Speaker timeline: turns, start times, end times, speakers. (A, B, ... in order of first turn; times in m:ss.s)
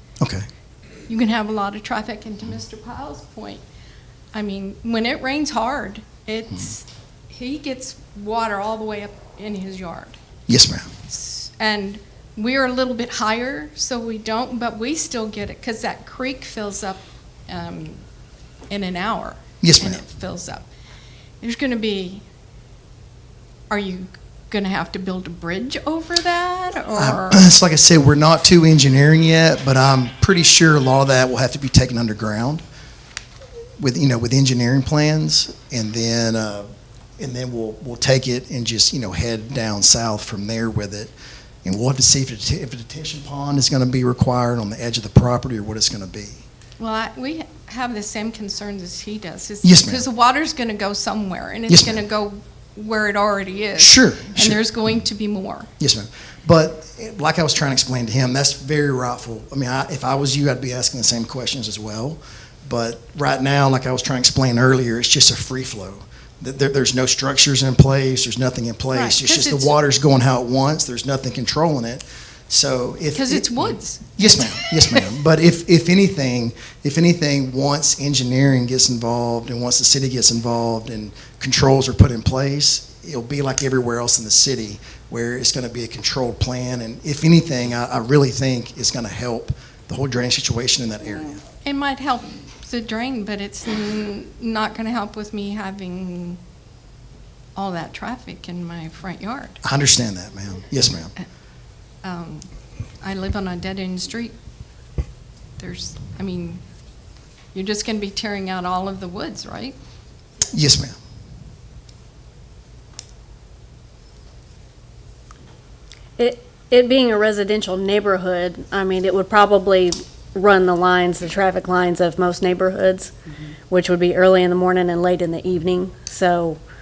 0:01.1-0:03.6 A
0:04.3-0:10.2 A
0:10.5-0:10.9 B
0:11.1-0:18.0 A
0:18.7-0:20.7 A
0:19.6-0:20.0 B
0:21.4-0:22.2 A
0:23.7-0:27.4 A
0:26.9-0:32.6 B
0:33.8-0:36.7 B
0:37.2-0:41.1 B
0:41.6-0:46.4 B
0:46.8-0:55.7 A
0:49.6-0:50.0 B
0:51.7-0:52.0 B
0:53.8-0:54.6 B
0:55.8-1:31.4 B
1:08.9-1:09.7 A
1:13.1-1:15.0 A
1:31.6-1:36.4 A
1:37.6-1:39.6 A
1:39.6-1:41.1 B
1:42.0-1:42.5 A
1:43.0-1:44.4 A
1:45.6-1:46.6 A
1:47.5-1:49.8 A
1:50.5-1:50.9 B
1:56.2-2:03.1 C
2:03.7-2:06.6 C